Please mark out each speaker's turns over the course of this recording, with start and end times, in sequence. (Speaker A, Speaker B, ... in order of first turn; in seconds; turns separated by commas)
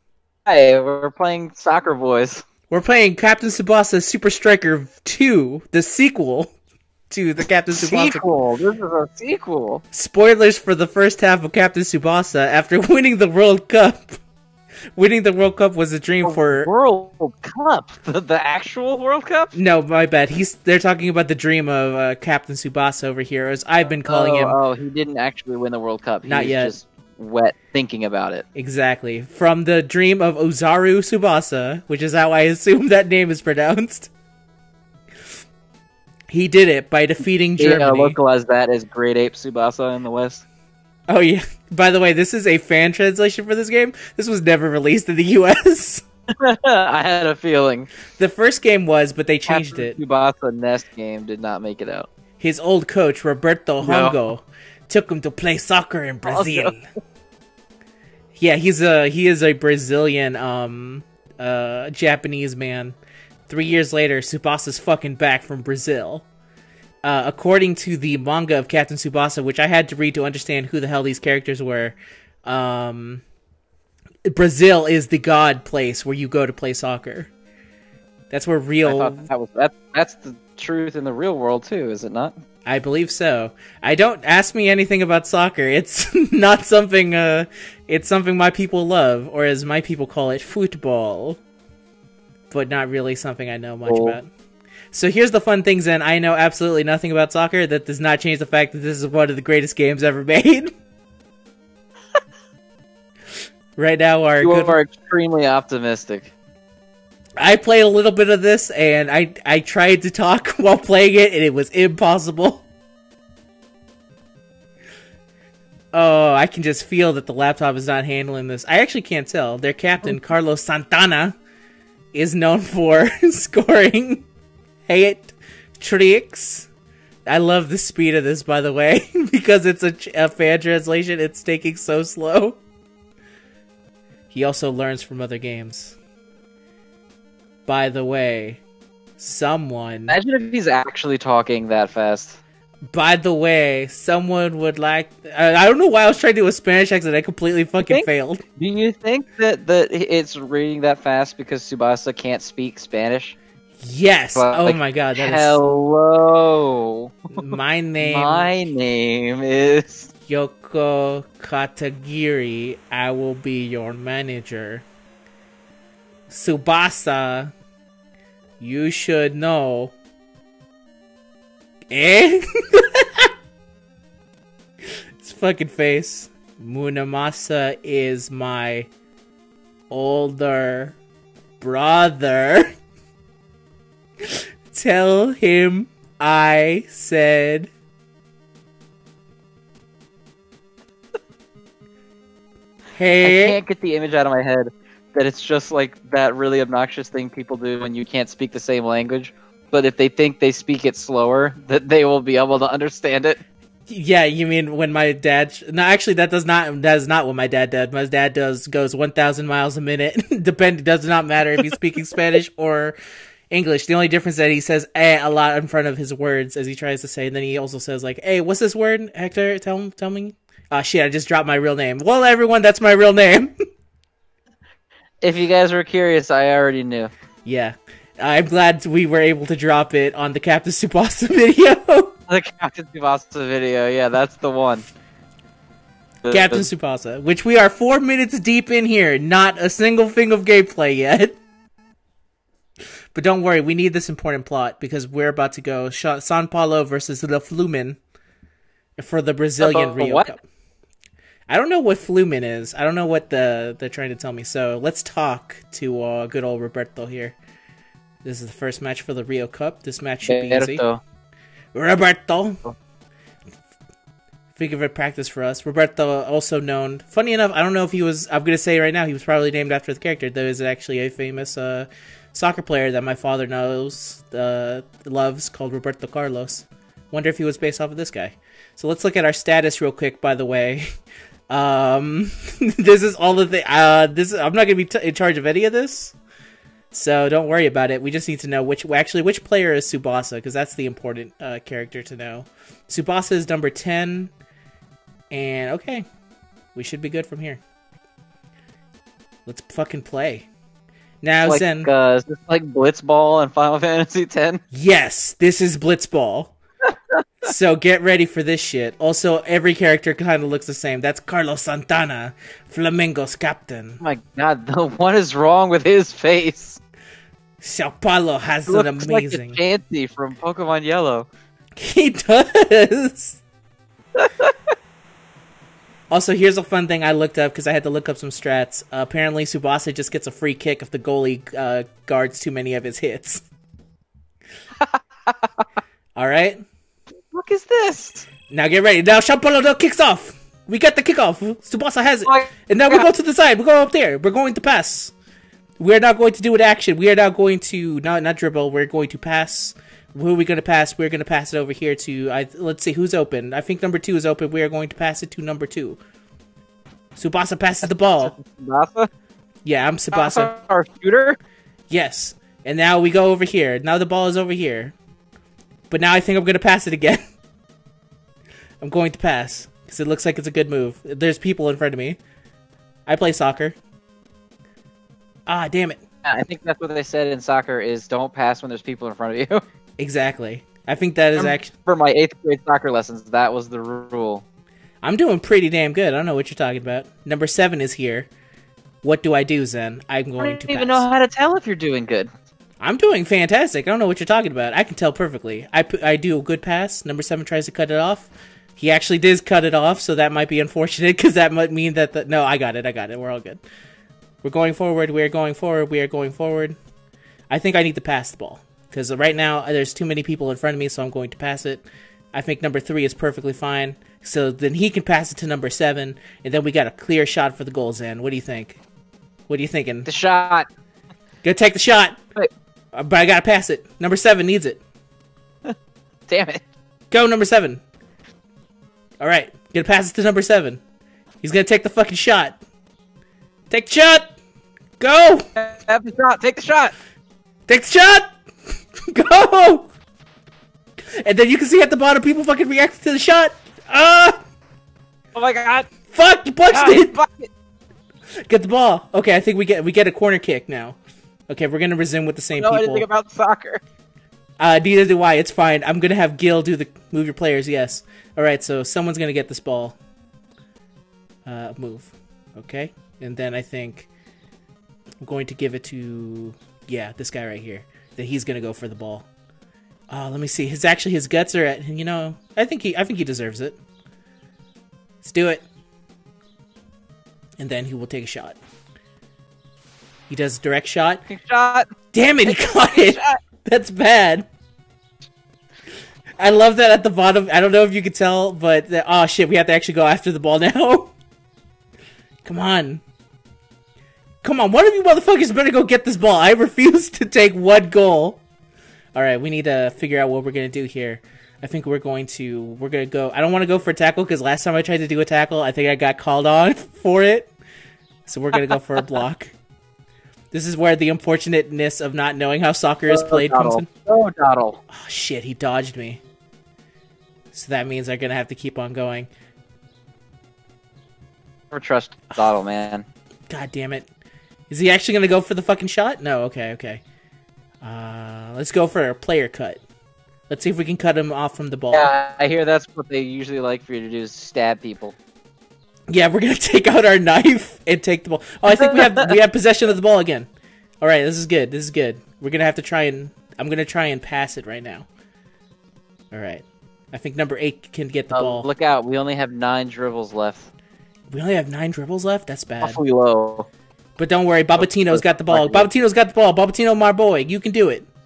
Speaker A: 0.5-2.4, Speaker B: 2.7-6.5, Speaker B: 7.1-8.2, Speaker A: 7.8-9.8, Speaker B: 9.9-14.2, Speaker B: 15.0-16.7, Speaker A: 16.2-19.5, Speaker B: 19.5-24.6, Speaker A: 24.1-28.4, Speaker B: 26.2-26.7, Speaker B: 28.6-34.1, Speaker B: 36.3-38.2, Speaker A: 37.6-40.4, Speaker B: 41.1-46.0, Speaker A: 46.4-47.9, Speaker B: 48.1-50.0, Speaker A: 49.5-52.1, Speaker B: 52.4-56.8, Speaker A: 53.8-54.2, Speaker A: 56.3-56.8, Speaker B: 58.4-63.0, Speaker B: 63.5-66.3, Speaker B: 67.0-73.2, Speaker B: 74.3-77.3, Speaker B: 78.3-79.3, Speaker A: 78.8-82.3, Speaker B: 82.7-91.4, Speaker B: 92.5-94.3, Speaker A: 93.9-94.2, Speaker B: 94.9-100.7, Speaker B: 103.8-104.8, Speaker A: 104.4-106.3, Speaker B: 107.4-112.7, Speaker B: 115.9-121.4, Speaker B: 122.1-124.3, Speaker B: 124.9-126.7, Speaker B: 127.3-132.6, Speaker B: 134.3-136.0, Speaker B: 137.7-138.6, Speaker B: 139.2-140.2, Speaker A: 140.1-142.4, Speaker B: 142.9-148.4, Speaker A: 147.9-153.4, Speaker B: 153.8-155.6, Speaker A: 154.3-157.4, Speaker B: 157.3-158.7, Speaker A: 158.0-160.1, Speaker B: 160.3-164.8, Speaker B: 166.3-167.5, Speaker B: 168.6-169.9, Speaker B: 171.9-173.3, Speaker B: 175.2-178.9, Speaker B: 179.9-181.0, Speaker B: 181.6-182.7, Speaker B: 184.7-187.7, Speaker B: 192.9-193.6, Speaker A: 193.2-203.4, Speaker B: 203.9-213.0, Speaker B: 213.5-223.5, Speaker A: 225.2-227.1, Speaker B: 227.4-232.1, Speaker A: 232.3-234.8, Speaker A: 236.2-236.7, Speaker B: 236.3-241.4, Speaker B: 243.1-248.0, Speaker B: 249.0-250.4, Speaker A: 249.6-250.3, Speaker B: 251.5-257.4, Speaker B: 258.2-260.8, Speaker A: 260.2-261.0, Speaker B: 261.7-262.6, Speaker B: 264.6-280.9, Speaker B: 281.5-286.1, Speaker B: 286.9-294.3, Speaker B: 295.3-296.1, Speaker B: 296.8-297.6, Speaker B: 299.5-300.5, Speaker B: 301.2-301.9, Speaker A: 301.4-304.6, Speaker B: 304.7-306.5, Speaker B: 307.4-314.0, Speaker A: 314.0-316.8, Speaker B: 317.6-319.6, Speaker A: 318.7-321.3, Speaker B: 321.8-323.4, Speaker A: 324.2-324.5, Speaker B: 326.1-333.4, Speaker A: 334.8-335.5, Speaker B: 336.2-336.6, Speaker A: 337.3-338.3, Speaker B: 338.5-345.1, Speaker A: 342.3-343.1, Speaker B: 345.8-356.0, Speaker B: 357.2-358.3, Speaker A: 357.8-359.1, Speaker B: 359.6-360.5, Speaker A: 360.1-361.4, Speaker B: 361.9-364.9, Speaker B: 365.9-367.2, Speaker B: 368.8-372.2, Speaker B: 373.1-373.8, Speaker B: 375.5-376.0, Speaker A: 376.2-379.6, Speaker B: 380.0-381.7, Speaker A: 381.4-384.4, Speaker B: 385.0-388.3, Speaker B: 389.0-391.1, Speaker A: 390.4-392.3, Speaker B: 392.8-403.6, Speaker B: 404.4-406.8, Speaker B: 407.5-418.8, Speaker B: 419.5-420.1, Speaker A: 420.1-420.7, Speaker B: 421.4-422.2, Speaker B: 422.9-424.8, Speaker A: 426.3-426.6, Speaker B: 427.1-427.8, Speaker B: 429.2-430.8, Speaker B: 431.4-432.6, Speaker B: 433.7-434.3, Speaker B: 435.0-435.4, Speaker A: 435.6-436.9, Speaker B: 437.7-438.3, Speaker B: 439.1-439.9, Speaker B: 441.2-444.4, Speaker A: 445.4-445.9, Speaker B: 446.1-447.2, Speaker A: 446.7-447.5, Speaker B: 448.5-451.0, Speaker B: 451.5-453.1, Speaker A: 452.6-453.8, Speaker B: 454.6-460.0, Speaker B: 461.4-464.1, Speaker B: 465.2-469.3, Speaker B: 470.1-473.8, Speaker B: 475.2-475.6, Speaker B: 477.6-478.6, Speaker B: 480.3-481.2, Speaker A: 481.3-481.9, Speaker B: 482.1-484.5, Speaker A: 482.4-483.4, Speaker B: 486.4-491.1, Speaker B: 492.4-493.0, Speaker B: 494.4-498.4, Speaker B: 499.1-507.5, Speaker B: 508.3-509.5, Speaker B: 510.5-513.9, Speaker A: 513.1-514.8, Speaker B: 514.9-516.2, Speaker B: 517.5-519.3, Speaker A: 521.7-523.1, Speaker B: 523.5-524.1, Speaker B: 524.7-527.0, Speaker B: 527.8-529.8, Speaker B: 530.5-532.1, Speaker A: 531.9-535.1, Speaker B: 536.1-540.5, Speaker A: 538.7-539.4, Speaker B: 541.0-545.1, Speaker B: 546.3-548.7, Speaker A: 548.3-550.7, Speaker B: 551.3-553.0, Speaker A: 552.8-553.7, Speaker B: 554.2-558.1, Speaker A: 554.8-555.9